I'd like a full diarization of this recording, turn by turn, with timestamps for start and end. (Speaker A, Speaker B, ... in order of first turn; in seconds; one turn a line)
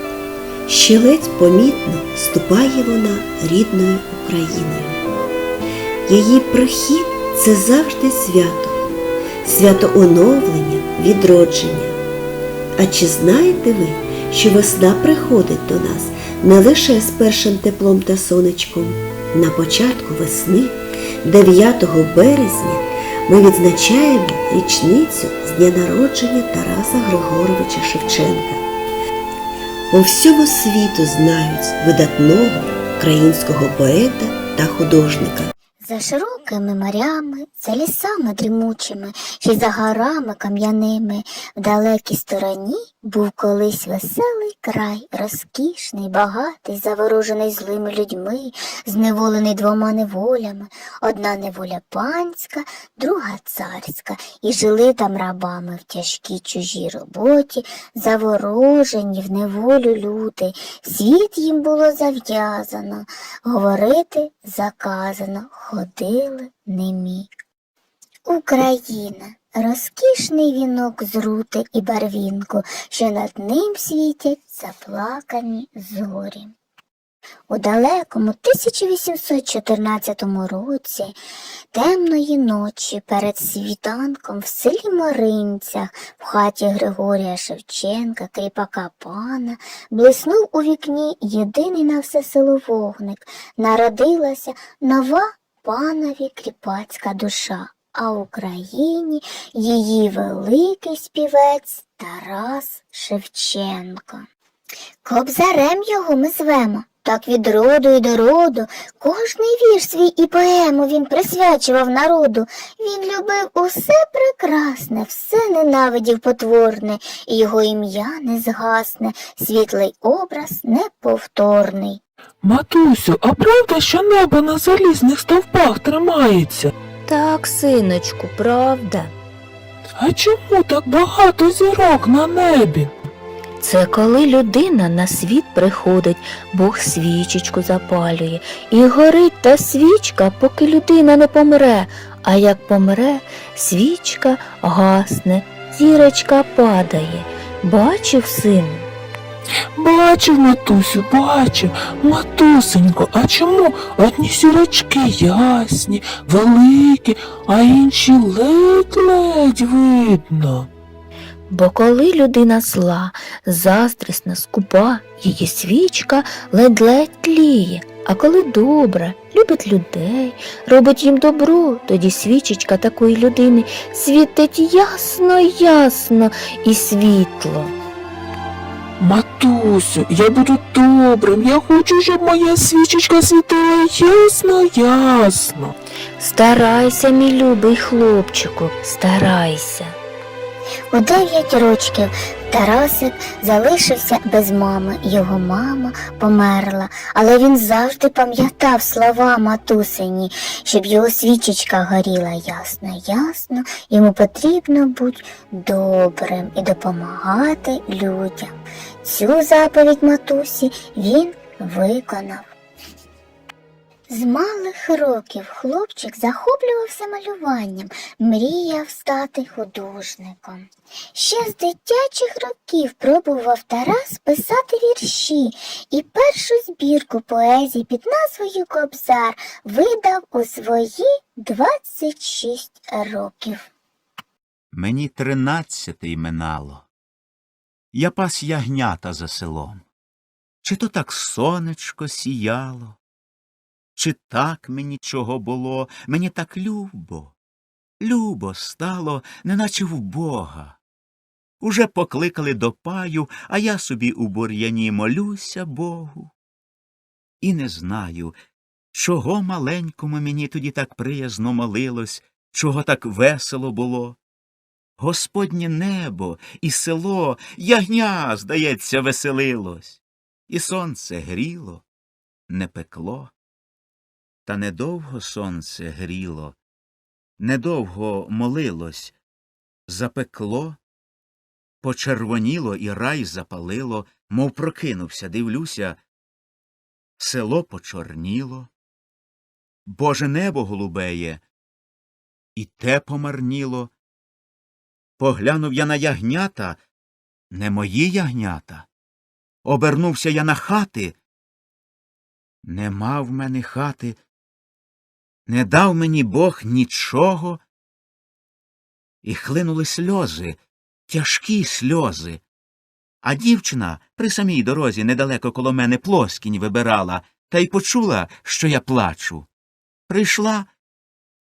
Speaker A: 0.7-5.0
Speaker A: 6.1-8.8
Speaker A: 9.4-12.0
Speaker A: 12.8-28.6
Speaker A: 29.9-35.5
Speaker B: 35.8-67.3
Speaker B: 68.2-76.5
Speaker B: 77.5-81.1
Speaker B: 81.7-104.3
Speaker B: 105.0-122.0
Speaker C: 122.4-126.7
Speaker D: 127.1-129.1
Speaker C: 130.0-132.9
Speaker D: 133.6-148.9
Speaker C: 149.8-160.7
Speaker D: 161.5-177.8
Speaker C: 179.0-185.7
Speaker D: 186.2-190.0
Speaker B: 190.9-212.5
Speaker B: 214.1-233.7
Speaker E: 234.7-236.9
Speaker E: 237.9-239.8
Speaker E: 240.6-243.0
Speaker E: 244.0-247.3
Speaker E: 248.0-250.8
Speaker E: 251.6-256.3
Speaker E: 257.4-258.4
Speaker E: 258.9-264.2
Speaker E: 265.0-271.8
Speaker E: 272.5-273.3
Speaker E: 274.5-276.6
Speaker E: 277.4-279.1
Speaker E: 279.9-280.8
Speaker E: 281.8-286.0
Speaker E: 287.2-288.7
Speaker E: 289.9-291.4
Speaker E: 292.6-293.9
Speaker E: 295.2-296.8
Speaker E: 297.5-298.9
Speaker E: 299.6-301.2
Speaker E: 302.6-304.2
Speaker E: 305.5-307.6
Speaker E: 309.2-312.4
Speaker E: 313.2-319.5
Speaker E: 320.1-320.7